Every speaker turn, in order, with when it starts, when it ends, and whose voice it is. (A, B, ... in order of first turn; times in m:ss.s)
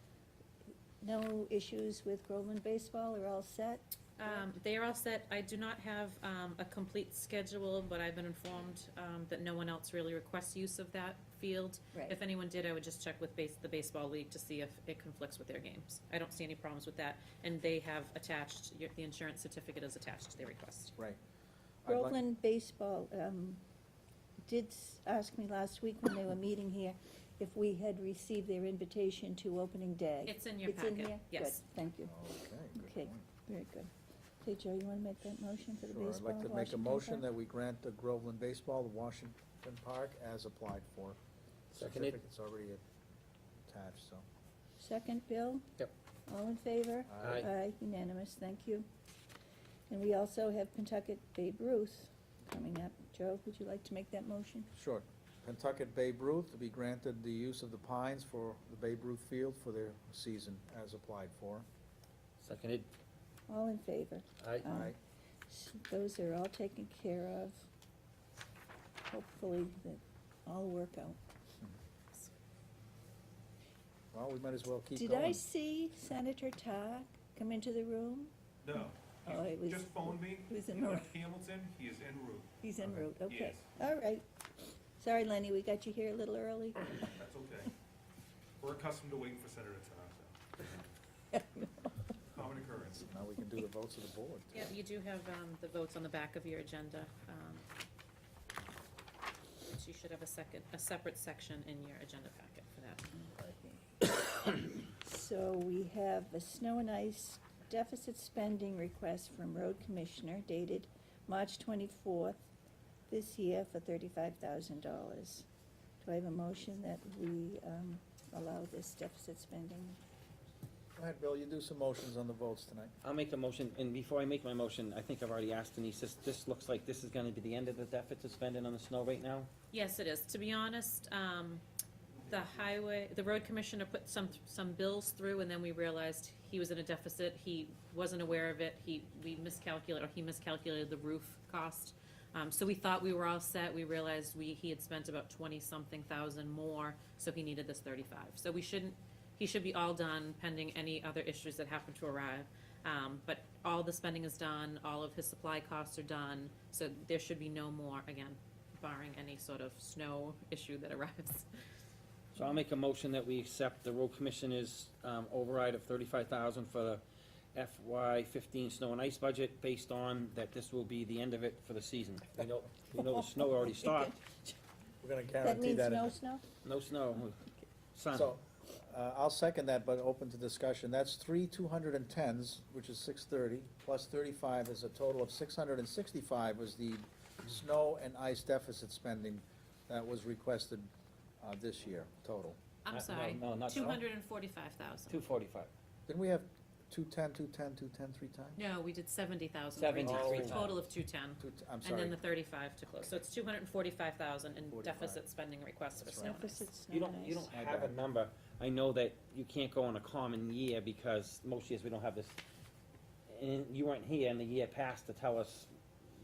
0:01.0-0:04.4 A
0:04.2-0:21.0 B
0:11.9-0:12.2 A
0:21.8-0:22.2 C
0:21.9-0:23.6 A
0:24.4-0:33.9 A
0:30.3-0:31.6 B
0:32.0-0:33.2 C
0:34.4-0:37.2 A
0:35.8-0:41.2 C
0:41.7-0:42.1 D
0:41.7-0:42.8 C
0:43.6-0:44.2 C
0:44.8-0:45.7 A
0:46.3-0:48.9 A
0:47.1-0:47.5 C
0:47.2-0:47.5 D
0:49.9-0:54.7 A
0:54.7-1:01.6 C
1:02.4-1:02.9 D
1:03.5-1:05.0 A
1:04.7-1:05.0 C
1:05.5-1:07.7 A
1:09.1-1:11.2 A
1:14.1-1:15.4 C
1:14.9-1:18.3 A
1:18.6-1:22.5 E
1:18.8-1:21.1 A
1:22.6-1:24.2 A
1:23.2-1:23.6 E
1:25.0-1:27.1 A
1:27.2-1:27.7 E
1:28.6-1:30.8 E
1:31.3-1:32.0 A
1:32.3-1:33.0 E
1:32.7-1:34.7 C
1:34.5-1:37.6 B
1:39.7-1:43.0 B
1:43.1-1:52.5 A
1:53.1-1:55.5 A
1:56.0-2:00.0 A
2:01.0-2:02.9 C
2:03.0-2:09.5 D
2:09.7-2:11.6 B
2:12.2-2:41.5 B
2:42.3-2:47.0 D
2:47.5-2:54.1 D
2:53.0-2:54.5 A
2:55.0-2:56.1 C
2:55.4-2:56.4 A
2:56.6-2:58.3 D
2:58.1-3:12.6 C
3:12.8-3:15.2 B
3:12.9-3:14.0 D
3:15.1-3:15.7 D
3:16.1-3:18.6 C
3:18.6-3:26.7 B
3:19.7-3:20.7 D
3:20.0-3:20.8 C
3:21.4-3:22.2 C
3:24.6-3:25.2 C
3:26.0-3:26.3 C
3:26.2-3:27.5 A
3:26.9-3:32.4 D
3:27.5-3:28.0 C
3:33.3-3:35.7 D